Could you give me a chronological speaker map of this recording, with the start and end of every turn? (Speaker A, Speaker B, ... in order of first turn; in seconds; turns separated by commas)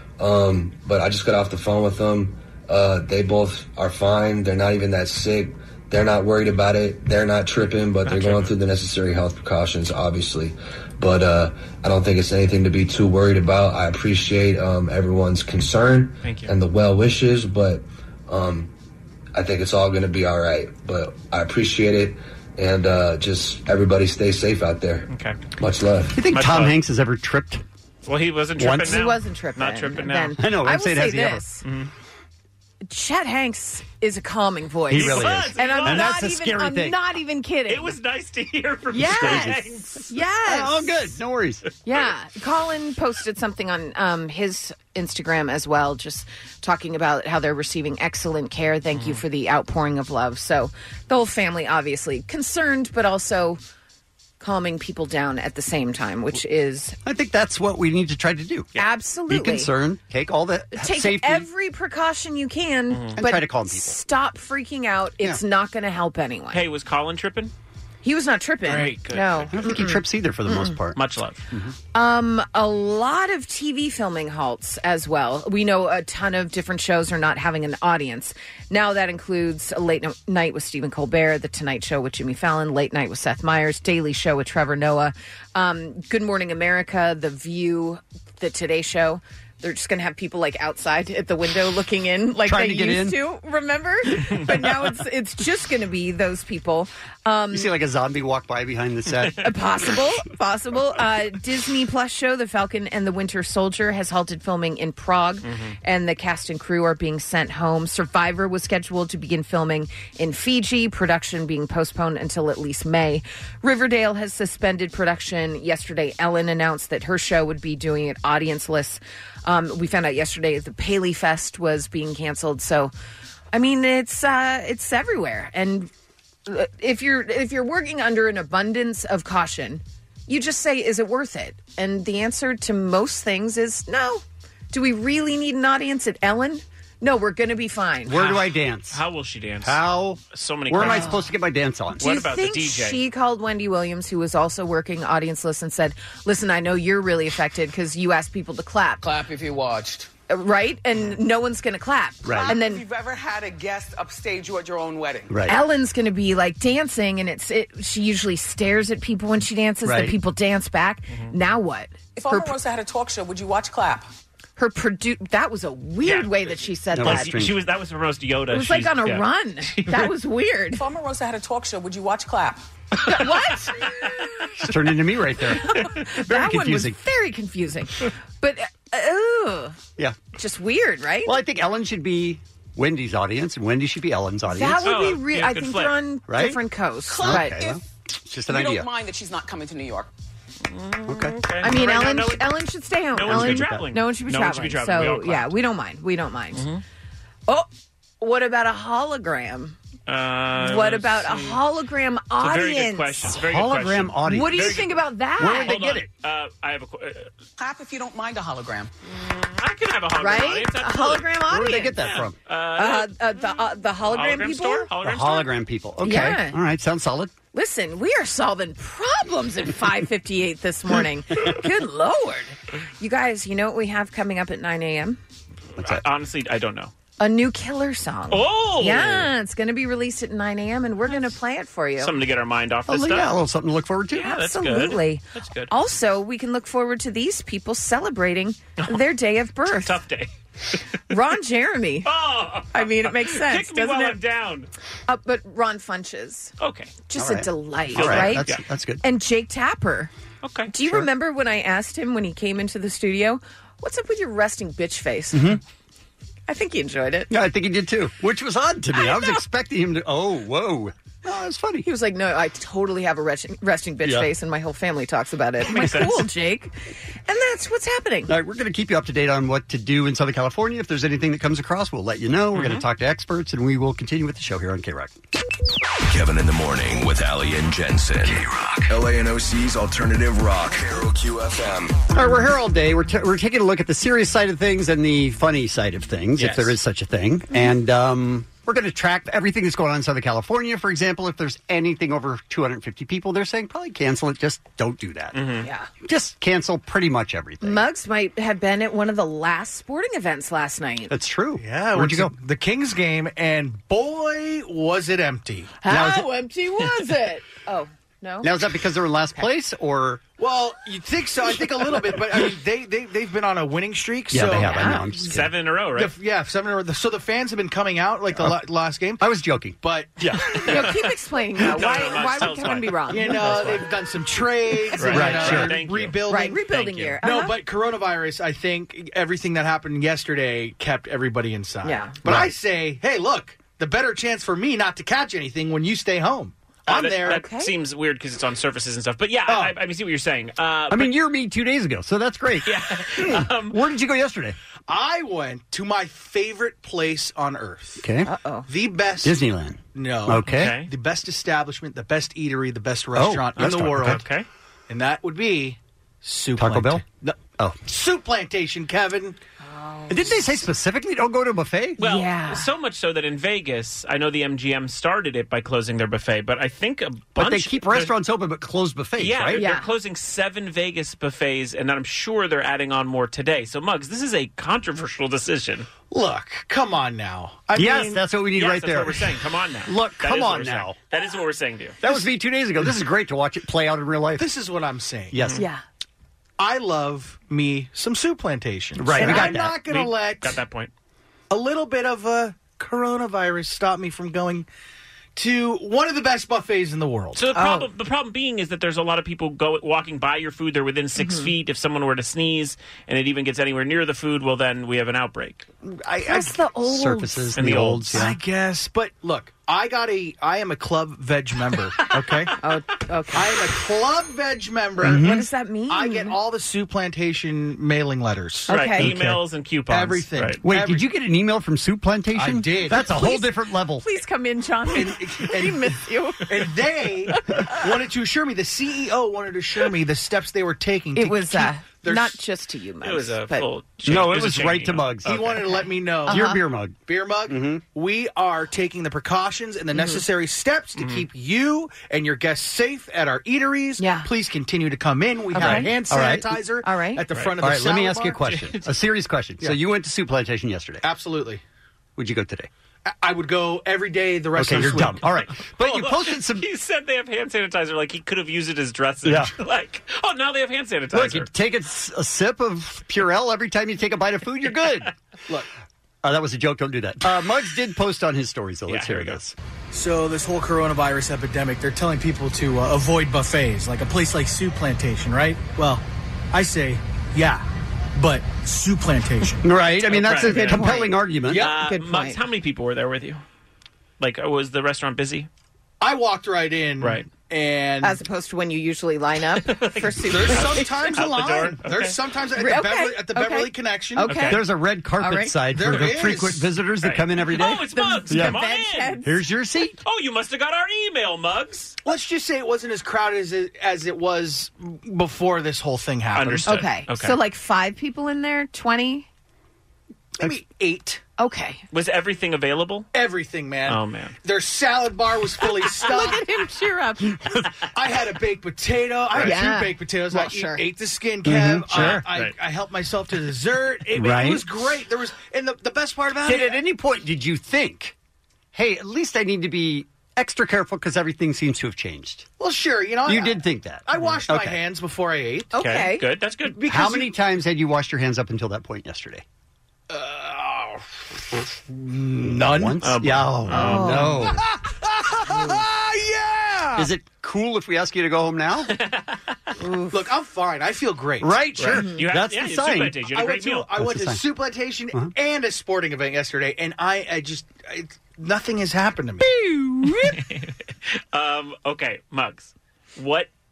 Speaker A: 0.2-18.7, Speaker B: 8.0-8.5, Speaker B: 16.2-16.5, Speaker A: 19.3-26.2, Speaker B: 25.1-25.4, Speaker C: 26.1-27.6, Speaker B: 26.3-26.8, Speaker B: 28.1-30.4, Speaker C: 28.6-29.0, Speaker D: 28.8-31.6, Speaker C: 30.4-31.4, Speaker B: 31.6-31.9, Speaker D: 32.8-37.9, Speaker C: 34.9-37.0, Speaker B: 34.9-36.2, Speaker B: 37.7-40.1, Speaker D: 38.9-41.0, Speaker C: 39.0-39.6, Speaker C: 40.4-41.6, Speaker D: 41.8-53.6, Speaker B: 48.9-49.2, Speaker D: 54.4-57.0, Speaker C: 57.0-58.7, Speaker D: 58.8-59.7, Speaker C: 59.3-61.5, Speaker D: 60.7-66.6, Speaker B: 62.9-63.2, Speaker C: 63.1-64.0, Speaker B: 66.5-67.5, Speaker D: 68.0-70.7, Speaker B: 68.7-69.5, Speaker C: 69.5-71.0, Speaker B: 71.0-71.4, Speaker D: 71.9-97.7, Speaker C: 92.5-93.2, Speaker C: 97.5-99.4, Speaker D: 99.4-122.9, Speaker B: 105.4-105.8, Speaker D: 123.5-125.9, Speaker D: 126.5-138.2, Speaker C: 138.1-139.0, Speaker B: 138.1-141.1, Speaker C: 139.6-142.0, Speaker D: 140.8-141.3, Speaker B: 142.0-143.0, Speaker D: 142.0-149.0, Speaker E: 149.0-150.1, Speaker D: 150.3-152.8, Speaker C: 152.2-152.5, Speaker E: 152.3-155.4, Speaker C: 155.3-155.6, Speaker D: 155.5-162.5, Speaker C: 159.8-160.2, Speaker E: 162.2-164.1, Speaker D: 164.6-167.3, Speaker B: 166.0-170.1, Speaker C: 166.9-167.6, Speaker D: 168.5-170.8, Speaker E: 170.8-172.6, Speaker D: 173.0-173.9, Speaker C: 174.6-177.0, Speaker D: 175.6-179.8, Speaker D: 180.3-181.3, Speaker C: 181.2-184.8, Speaker D: 184.5-187.6, Speaker B: 184.8-185.9, Speaker C: 186.3-186.6, Speaker E: 187.1-187.8, Speaker C: 187.2-188.9, Speaker E: 188.5-190.1, Speaker B: 190.7-192.5, Speaker C: 191.1-191.3, Speaker D: 191.6-196.6, Speaker B: 193.2-195.5, Speaker C: 193.2-193.9, Speaker B: 196.5-196.8, Speaker D: 198.2-199.8, Speaker B: 200.1-201.6, Speaker D: 200.6-203.3, Speaker B: 202.4-204.9, Speaker C: 203.3-206.1, Speaker D: 204.2-205.8, Speaker B: 205.6-207.3, Speaker E: 207.6-208.9, Speaker B: 209.0-211.4, Speaker D: 210.2-212.0, Speaker C: 211.5-212.3, Speaker B: 212.0-215.5, Speaker D: 212.8-214.9, Speaker C: 215.0-217.3, Speaker D: 216.0-216.6, Speaker D: 217.5-225.2, Speaker C: 225.8-226.0, Speaker B: 225.8-226.9, Speaker D: 227.2-232.1, Speaker B: 228.3-229.3, Speaker B: 232.0-233.3, Speaker C: 232.9-234.3, Speaker B: 234.2-235.7, Speaker D: 234.2-240.0, Speaker B: 239.7-240.3, Speaker D: 241.1-242.1, Speaker B: 242.0-244.7, Speaker D: 242.7-244.2, Speaker D: 245.1-246.5, Speaker B: 246.6-246.9, Speaker D: 247.1-248.5, Speaker C: 247.2-249.0, Speaker B: 247.9-248.6, Speaker D: 249.0-250.1, Speaker B: 250.4-250.7, Speaker D: 250.7-255.6, Speaker C: 255.3-255.6, Speaker D: 256.5-257.3, Speaker C: 257.3-261.9, Speaker D: 258.9-259.4, Speaker D: 261.8-266.7, Speaker C: 264.0-264.3, Speaker B: 265.7-266.2, Speaker D: 267.2-268.3, Speaker C: 268.3-275.1, Speaker B: 272.5-272.8, Speaker F: 276.0-282.0, Speaker C: 282.1-295.4, Speaker B: 295.3-295.7, Speaker D: 295.6-295.9, Speaker C: 296.0-297.8, Speaker D: 297.6-301.1, Speaker C: 301.1-302.3, Speaker G: 301.6-305.7, Speaker D: 305.8-308.6, Speaker C: 305.9-306.3, Speaker C: 308.4-310.2, Speaker G: 310.4-315.0, Speaker C: 314.3-315.5, Speaker D: 314.5-315.2, Speaker B: 315.2-316.1, Speaker G: 315.9-319.2, Speaker C: 319.2-320.6, Speaker G: 319.8-320.2, Speaker B: 320.6-320.9, Speaker D: 320.7-323.8, Speaker B: 321.6-323.8, Speaker G: 323.1-326.6, Speaker B: 324.9-327.2, Speaker C: 325.0-325.8, Speaker D: 326.3-327.6, Speaker G: 327.2-337.4, Speaker D: 331.8-332.1, Speaker C: 332.2-332.5, Speaker B: 336.9-341.1, Speaker D: 337.2-337.7, Speaker C: 340.9-344.6, Speaker B: 342.6-343.8, Speaker G: 344.9-348.0, Speaker C: 348.0-348.3, Speaker D: 348.2-348.7, Speaker G: 348.7-349.4, Speaker C: 349.2-350.7, Speaker G: 349.9-354.2, Speaker B: 350.4-350.9, Speaker C: 353.1-354.2, Speaker B: 353.6-354.4, Speaker G: 354.9-359.4, Speaker C: 356.6-357.0, Speaker D: 359.6-360.4, Speaker C: 360.1-362.0, Speaker D: 362.0-362.6, Speaker B: 362.0-368.1, Speaker C: 367.4-369.6, Speaker B: 369.2-375.9, Speaker D: 369.6-369.9, Speaker G: 376.1-378.2, Speaker C: 377.7-379.3, Speaker B: 378.5-382.0, Speaker C: 379.9-380.9, Speaker C: 382.0-384.4, Speaker G: 384.4-385.4, Speaker C: 385.3-385.6, Speaker D: 385.5-385.8, Speaker G: 386.6-390.6, Speaker C: 389.0-389.8, Speaker B: 389.2-390.9, Speaker G: 391.5-394.7, Speaker G: 395.3-397.4, Speaker B: 397.4-405.6, Speaker D: 397.5-397.9, Speaker D: 401.2-401.5, Speaker C: 406.0-408.4, Speaker D: 406.2-407.6, Speaker B: 407.6-408.2, Speaker G: 408.1-412.5, Speaker D: 412.6-413.5, Speaker G: 413.3-415.3, Speaker C: 415.0-415.4, Speaker D: 415.0-416.4, Speaker G: 415.9-418.7, Speaker D: 418.7-419.1, Speaker B: 418.7-420.6, Speaker C: 419.0-419.4, Speaker G: 419.9-421.1, Speaker C: 420.6-424.1, Speaker G: 422.3-423.1, Speaker D: 422.9-426.7, Speaker G: 424.9-425.9, Speaker G: 426.5-432.4, Speaker D: 427.2-427.9, Speaker D: 431.1-433.7, Speaker B: 433.0-435.2, Speaker C: 434.0-435.6, Speaker G: 435.2-436.5, Speaker D: 436.3-436.6, Speaker C: 436.3-437.8, Speaker G: 437.1-448.4, Speaker D: 439.9-440.2, Speaker B: 441.0-441.2, Speaker D: 444.0-444.3, Speaker D: 445.5-445.9, Speaker C: 445.5-446.5, Speaker D: 446.8-447.2, Speaker C: 447.6-451.0, Speaker B: 448.5-448.8, Speaker G: 451.0-451.6, Speaker C: 452.2-452.7, Speaker G: 453.1-455.2, Speaker C: 454.6-456.6, Speaker B: 455.6-461.5, Speaker C: 459.2-459.5, Speaker C: 461.1-465.1, Speaker C: 466.2-469.5, Speaker B: 468.9-469.4, Speaker G: 469.9-479.6, Speaker C: 479.6-481.6, Speaker B: 480.1-483.4, Speaker D: 480.4-482.4, Speaker B: 484.2-485.5, Speaker G: 486.0-488.2, Speaker B: 487.0-487.2, Speaker D: 488.0-491.1, Speaker B: 489.6-492.2, Speaker G: 490.3-494.3, Speaker D: 492.6-494.6, Speaker B: 494.3-494.6, Speaker C: 494.5-498.6, Speaker D: 495.2-495.5, Speaker G: 495.7-496.7, Speaker B: 497.0-499.2, Speaker D: 497.6-499.3, Speaker C: 499.2-500.0, Speaker B: 500.0-501.9, Speaker G: 502.0-506.7, Speaker B: 506.3-507.4, Speaker D: 506.6-509.3, Speaker G: 510.4-511.2, Speaker D: 511.4-511.8, Speaker B: 511.9-513.1, Speaker G: 513.1-516.4, Speaker B: 513.9-514.3, Speaker D: 515.8-517.4, Speaker G: 517.9-526.8, Speaker D: 519.4-520.8, Speaker C: 521.4-522.2, Speaker B: 521.9-522.5, Speaker C: 524.1-524.6, Speaker C: 526.4-528.1, Speaker C: 528.7-532.5, Speaker G: 532.6-535.7, Speaker C: 533.2-534.8, Speaker D: 535.7-536.2, Speaker B: 535.8-537.2, Speaker C: 536.9-539.4, Speaker G: 540.1-543.0, Speaker C: 542.4-544.6, Speaker B: 543.0-544.3, Speaker D: 543.7-544.5, Speaker G: 544.6-547.1, Speaker D: 545.5-545.8, Speaker C: 547.0-548.9, Speaker B: 548.9-549.4, Speaker D: 549.8-550.2, Speaker G: 550.1-551.7, Speaker C: 551.4-553.1, Speaker B: 551.8-553.9, Speaker G: 553.3-559.5, Speaker C: 554.0-554.4, Speaker C: 559.4-560.3, Speaker B: 560.3-560.7, Speaker B: 561.3-563.5